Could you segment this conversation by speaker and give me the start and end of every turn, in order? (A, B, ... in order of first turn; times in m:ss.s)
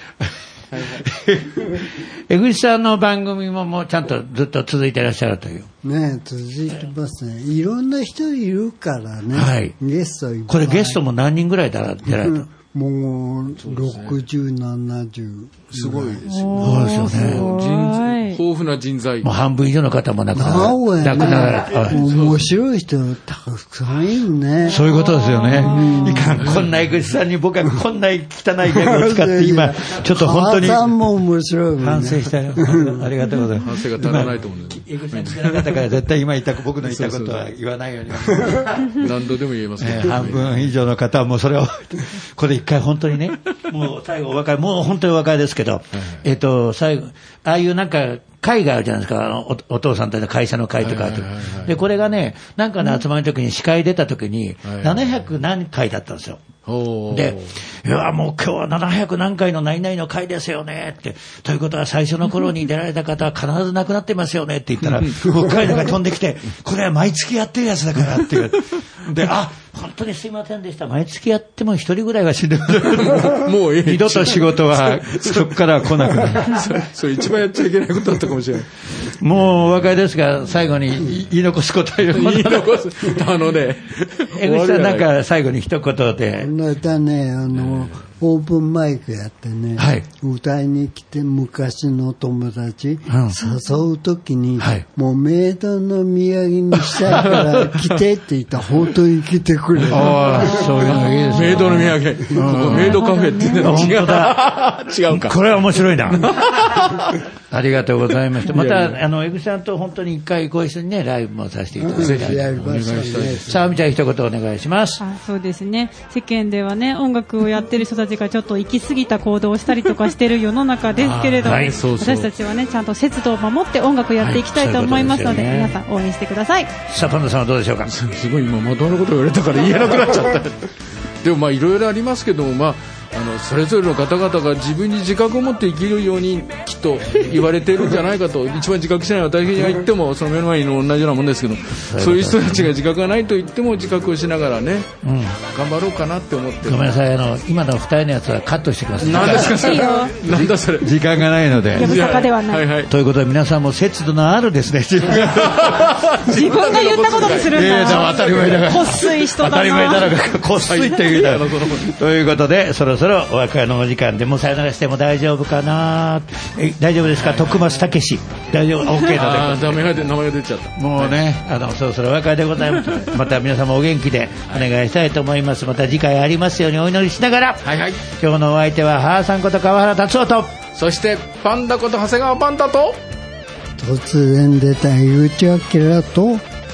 0:00.2-0:05.7 A
0:00.7-0:01.0 B
0:05.8-0:11.0 C
0:09.3-0:09.8 A
0:10.5-0:12.5 A
0:12.0-0:16.6 C
0:13.6-0:14.2 B
0:15.7-0:19.3 B
0:16.2-0:18.4 D
0:16.6-0:17.5 A
0:19.2-0:22.0 A
0:20.3-0:24.8 C
0:21.3-0:22.4 B
0:24.7-0:31.0 A
0:24.7-0:26.3 D
0:25.6-0:26.4 C
0:26.4-0:26.7 B
0:28.8-0:33.1 C
0:31.8-0:39.1 A
0:33.6-0:35.8 B
0:36.8-0:37.5 B
0:38.6-0:40.8 B
0:39.8-0:56.4 A
0:45.9-0:46.2 B
0:50.8-0:51.7 B
0:54.6-0:55.0 B
0:56.6-0:57.6 B
0:57.1-1:16.5 A
1:04.8-1:05.5 B
1:12.7-1:18.7 B
1:19.0-1:23.0 A
1:22.1-1:25.1 B
1:24.3-1:26.5 A
1:26.4-1:40.8 C
1:27.5-1:28.0 B
1:29.8-1:30.1 A
1:33.1-1:33.4 A
1:34.6-1:34.8 A
1:37.0-1:37.8 A
1:39.8-1:45.4 B
1:39.8-1:43.0 A
1:40.5-1:41.6 D
1:42.6-1:43.8 D
1:43.6-1:44.4 A
1:45.1-1:46.4 A
1:46.1-1:47.2 B
1:47.5-1:52.4 A
1:48.5-1:49.0 B
1:51.8-1:53.6 C
1:51.9-1:53.6 B
1:53.4-1:55.0 A
1:55.0-2:06.7 D
2:01.0-2:01.7 A
2:01.4-2:02.3 B
2:04.2-2:05.8 A
2:06.9-2:07.9 A
2:07.8-2:24.9 B
2:21.9-2:22.7 A
2:25.0-2:25.4 A
2:25.4-2:26.9 B
2:26.6-2:32.0 A
2:29.0-2:31.0 B
2:29.3-2:30.2 D
2:31.7-2:32.9 B
2:31.8-2:32.7 D
2:32.9-2:36.1 A
2:35.1-2:38.4 B
2:36.2-2:40.2 D
2:37.5-2:50.0 A
2:40.6-2:42.0 B
2:47.2-2:47.8 B
2:49.0-2:51.2 B
2:50.8-3:00.6 A
2:57.6-2:58.0 B
3:00.8-3:03.0 B
3:03.8-3:06.4 C